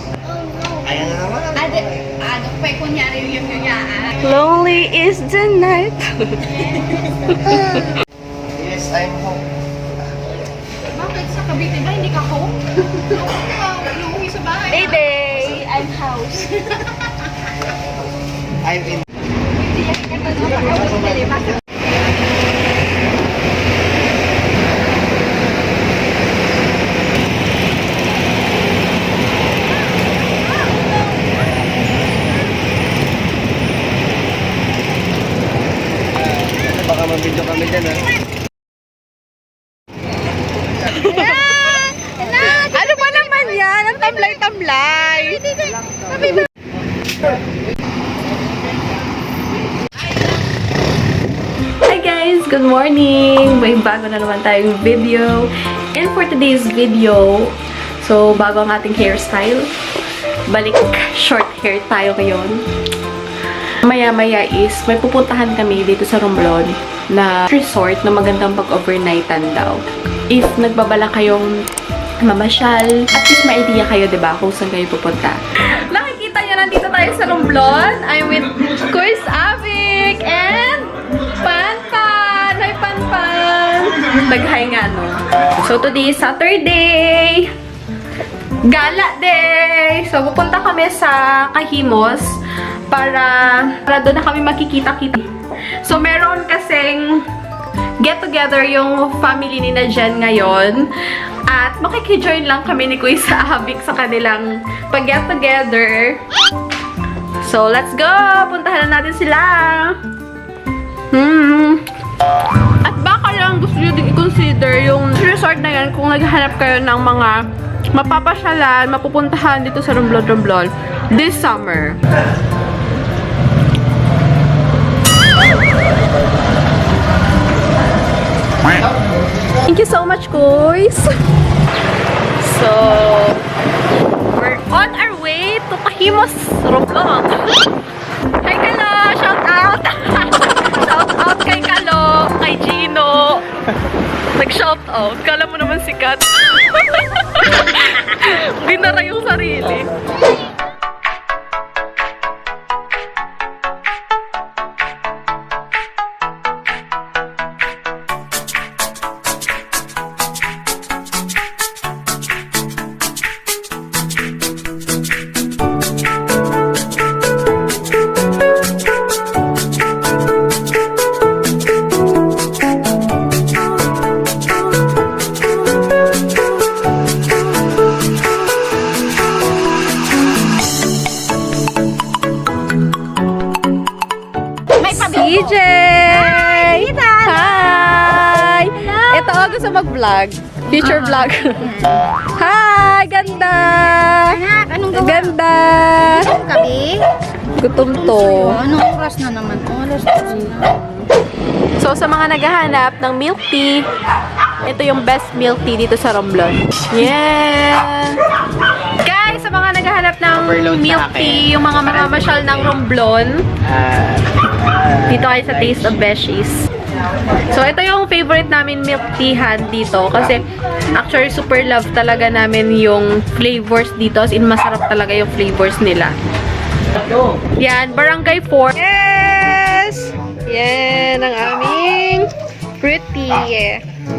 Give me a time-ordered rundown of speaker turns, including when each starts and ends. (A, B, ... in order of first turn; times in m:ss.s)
0:00.7-0:02.1 A
0:02.4-0:03.9 B
0:04.1-0:07.8 C
0:08.5-0:09.4 A
0:11.0-0:12.6 B
0:13.6-0:16.7 B
0:14.8-0:15.6 C
0:18.6-0:19.0 A
0:19.9-0:21.5 B
0:36.4-0:38.1 A
0:40.9-0:45.7 C
0:46.0-0:46.3 B
0:51.8-0:59.8 C
1:00.5-1:02.6 C
1:03.8-1:11.6 C
1:12.2-1:27.5 C
1:28.6-1:35.3 C
1:35.8-1:37.3 C
1:38.0-1:40.9 C
1:41.5-1:46.2 C
1:47.4-1:50.0 C
1:51.1-1:51.8 C
1:52.8-2:02.0 C
2:09.6-2:11.1 C
2:12.4-2:13.5 C
2:14.2-2:17.7 C
2:18.4-2:23.5 C
2:24.4-2:29.9 C
3:04.8-3:16.4 C
3:04.8-3:05.4 B
3:06.3-3:07.8 B
3:14.3-3:15.4 B
3:16.2-3:17.1 B
3:17.6-3:18.7 C
3:18.2-3:20.6 B
3:20.3-3:21.1 C
3:21.8-3:23.9 C
3:24.6-3:28.2 C
3:29.0-3:33.5 C
3:30.5-3:31.5 A
3:33.7-3:35.8 A
3:35.0-3:36.7 C
3:37.4-3:46.2 C
3:47.4-3:53.8 C